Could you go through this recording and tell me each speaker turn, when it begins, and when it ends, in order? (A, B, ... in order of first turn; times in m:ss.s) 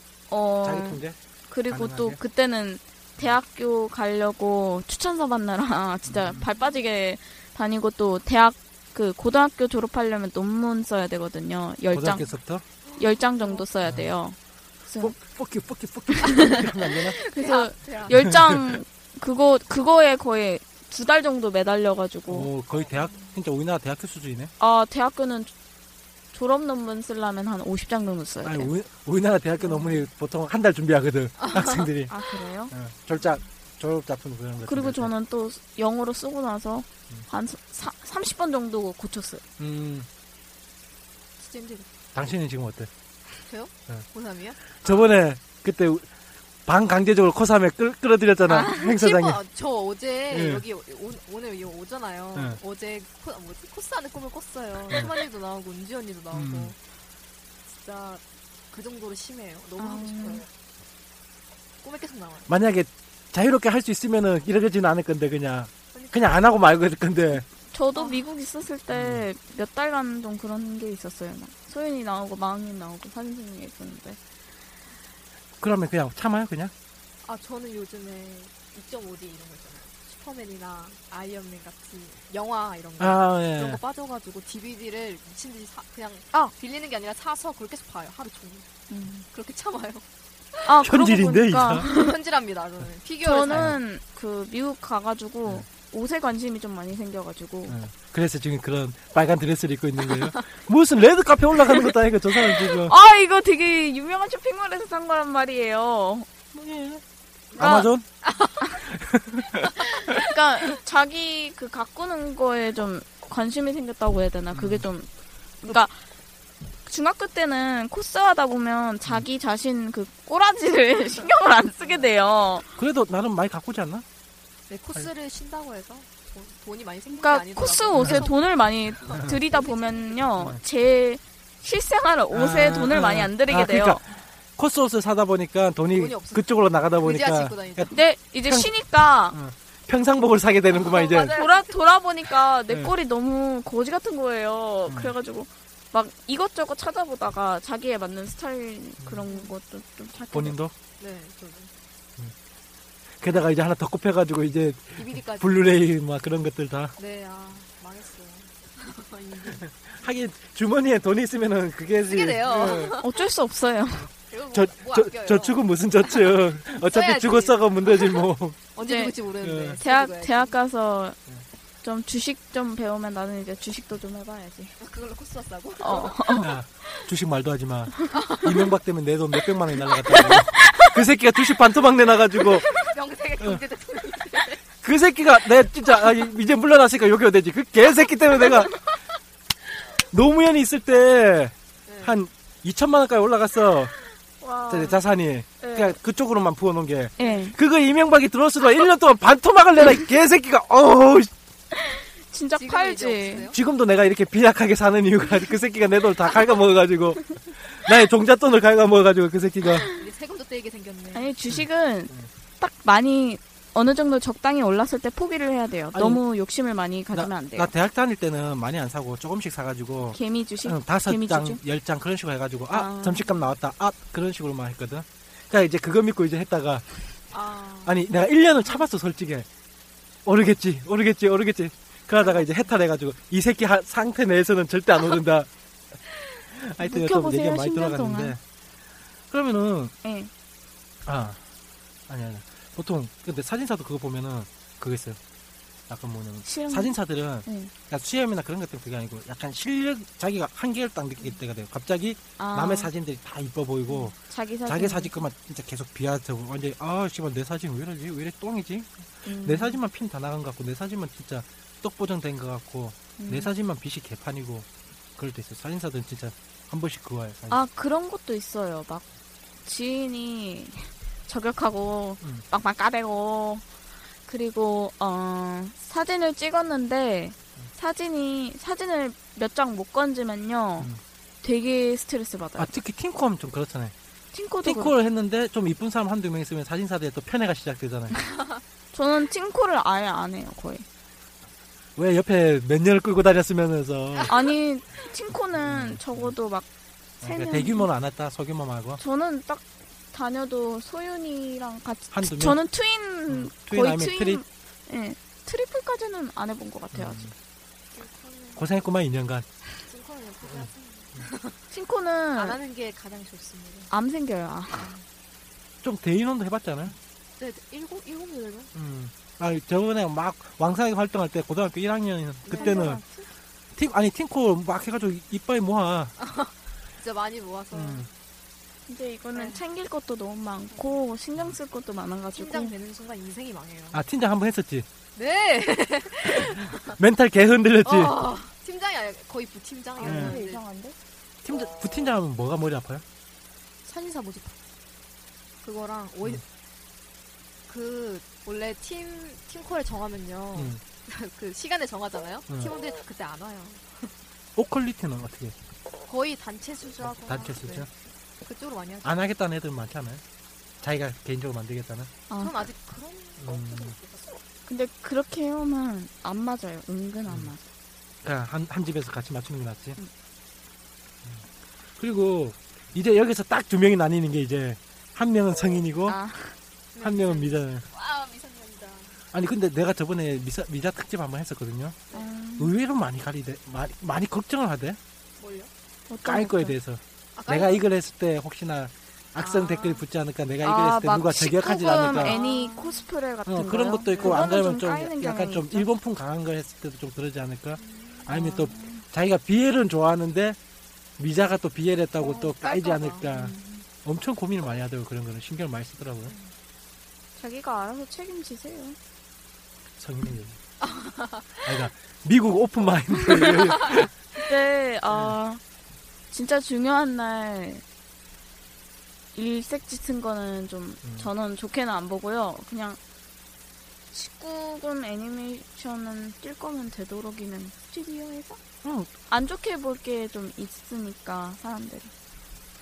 0:00.3-0:12.2 A
0:00.6-0:01.2 B
0:01.7-0:02.2 B
0:06.0-0:06.4 B
0:11.9-0:12.6 B
0:12.8-0:13.6 C
0:13.0-0:14.4 A
0:14.9-0:15.1 A
0:15.0-0:17.2 B
0:16.2-0:22.5 A
0:17.3-0:18.2 C
0:18.1-0:18.8 B
0:22.3-0:24.5 B
0:22.9-0:23.4 C
0:24.6-0:25.5 A
0:26.3-0:28.7 A
0:28.4-0:32.1 B
0:31.4-0:31.9 C
0:32.1-0:32.7 A
0:32.7-0:35.1 B
0:34.6-0:39.4 A
0:39.6-0:40.1 B
0:41.4-0:41.9 C
0:42.1-0:42.9 B
0:43.5-0:45.0 C
0:44.7-0:46.1 B
0:46.6-0:49.4 B
0:48.5-0:56.8 C
0:50.3-0:50.6 B
0:56.3-0:56.7 B
0:57.7-1:00.5 C
0:59.8-1:00.4 A
1:01.8-1:02.6 C
1:02.5-1:07.4 B
1:05.9-1:06.4 C
1:07.7-1:14.2 A
1:07.9-1:08.2 C
1:08.9-1:09.2 B
1:15.6-1:16.7 B
1:17.2-1:28.7 C
1:23.0-1:23.8 B
1:28.9-1:29.2 A
1:29.3-1:30.0 C
1:30.6-1:32.1 A
1:30.8-1:31.9 B
1:31.9-1:33.7 C
1:33.2-1:37.8 A
1:33.5-1:33.8 B
1:37.7-1:42.9 B
1:42.8-1:46.3 A
1:46.5-1:47.0 B
1:47.5-1:48.0 B
1:47.6-1:47.9 A
1:48.2-1:48.7 C
1:48.8-1:49.8 B
1:49.8-1:55.1 A
1:54.5-1:54.9 B
1:55.6-1:55.9 A
1:56.8-2:02.6 A
2:01.8-2:02.1 C
2:02.8-2:04.0 B
2:04.7-2:08.4 C
2:07.2-2:14.0 A
2:07.9-2:08.3 B
2:09.0-2:10.3 C
2:12.3-2:17.9 B
2:15.9-2:18.0 C
2:17.9-2:19.4 A
2:18.4-2:18.7 B
2:19.3-2:21.4 B
2:20.7-2:21.8 C
2:21.3-2:30.6 A
2:24.9-2:25.1 B
2:29.0-2:29.2 B
2:30.3-2:30.7 B
2:31.0-2:31.7 C
2:33.2-2:36.9 B
2:35.0-2:35.8 C
2:37.0-2:39.9 C
2:39.9-2:43.0 B
2:42.0-2:43.1 C
2:43.0-2:44.1 A
2:44.3-2:50.6 C
2:44.5-2:48.7 B
2:48.8-2:49.2 A
2:49.4-2:49.8 B
2:49.8-2:51.2 A
2:51.8-2:54.7 A
2:54.8-2:56.4 C
2:55.8-2:56.5 A
2:56.4-3:02.7 B
2:58.1-2:58.7 C
3:00.3-3:00.9 A
3:02.4-3:04.6 C
3:04.8-3:08.8 B
3:10.1-3:13.9 B
3:11.9-3:12.2 C
3:14.4-3:15.0 A
3:14.7-3:21.3 B
3:15.6-3:16.0 A
3:17.2-3:17.5 C
3:17.2-3:17.5 A
3:21.8-3:23.4 A
3:22.6-3:23.6 C
3:23.5-3:29.8 B
3:29.9-3:31.3 C
3:31.1-3:37.7 A
3:31.5-3:32.3 B
3:35.9-3:36.2 B
3:37.1-3:46.8 B
3:40.1-3:41.6 A
3:42.7-3:43.3 A
3:47.3-3:48.1 C
3:47.8-3:49.5 B
3:50.2-3:55.5 B
3:52.2-3:52.7 C
3:56.5-3:58.4 B
3:56.8-3:58.3 A
3:59.3-3:59.9 B
4:00.0-4:00.3 A
4:01.0-4:01.4 B
4:02.1-4:05.2 B
4:05.9-4:27.6 B
4:06.4-4:07.7 A
4:12.4-4:12.9 A
4:13.9-4:15.2 A
4:19.2-4:19.8 A
4:23.2-4:23.5 A
4:27.5-4:29.0 A
4:29.6-4:33.6 A
4:34.3-4:40.9 A
4:41.4-4:42.7 A
4:42.6-4:43.9 B
4:44.3-4:44.9 A
4:44.6-4:48.2 B
4:48.3-4:48.6 C
4:48.9-4:50.8 A
4:52.0-4:54.3 B
4:54.2-4:54.5 C
4:54.3-4:56.6 A
4:55.6-4:56.3 B
4:57.2-4:57.9 A
4:57.2-4:59.0 B
4:59.0-5:07.3 A
5:02.1-5:02.6 B
5:03.3-5:04.4 B
5:06.9-5:07.3 B
5:07.9-5:08.7 C
5:08.6-5:09.4 B
5:09.8-5:11.6 C
5:11.7-5:12.6 A
5:12.4-5:13.9 C
5:13.9-5:14.9 A
5:14.8-5:15.0 C
5:15.8-5:17.0 B
5:17.4-5:18.7 C
5:18.7-5:23.0 B
5:22.5-5:23.0 C
5:22.5-5:23.2 A
5:23.7-5:26.1 B
5:26.2-5:28.1 C
5:27.7-5:28.1 B
5:28.9-5:32.7 A
5:29.3-5:29.6 C
5:30.7-5:31.0 C
5:32.3-5:34.0 C
5:33.9-5:34.9 B
5:35.2-5:37.0 C
5:36.2-5:38.2 B
5:37.8-5:40.6 C
5:40.0-5:40.9 A
5:40.0-5:40.4 B
5:41.4-5:43.0 B
5:43.8-5:44.6 C
5:45.6-5:46.4 C
5:47.7-5:54.1 C
5:50.5-5:50.8 B
5:52.5-5:52.7 B
5:54.6-5:55.5 B
5:56.1-5:57.9 C
5:57.0-5:57.9 B
5:58.4-5:59.2 C
5:59.0-6:00.2 B
6:00.8-6:02.1 B
6:02.3-6:02.7 A
6:02.4-6:04.3 C
6:03.4-6:04.0 B
6:04.7-6:07.6 A
6:08.2-6:10.0 B
6:12.0-6:16.2 B
6:16.1-6:16.6 A
6:16.9-6:19.2 C
6:17.0-6:17.8 B
6:19.3-6:22.0 B
6:22.1-6:22.7 A
6:22.6-6:25.0 B
6:25.4-6:25.7 C
6:26.1-6:26.7 A
6:26.2-6:32.4 B
6:27.4-6:27.8 C
6:29.4-6:30.0 C
6:30.6-6:35.9 A
6:31.8-6:33.1 C
6:33.4-6:40.6 B
6:34.1-6:34.4 C
6:37.8-6:38.3 C
6:38.3-6:39.0 A
6:41.2-6:46.3 B
6:42.2-6:43.5 C
6:43.4-6:43.8 A
6:46.2-6:46.5 C
6:47.4-6:49.0 A
6:50.0-6:50.6 B
6:50.8-6:51.7 C
6:51.6-6:54.1 B
6:54.4-6:55.6 A
6:55.1-6:55.4 B
6:56.3-6:57.8 A
6:59.3-7:03.0 A
7:01.0-7:01.3 B
7:04.1-7:08.6 A
7:08.8-7:09.1 B
7:09.3-7:12.1 A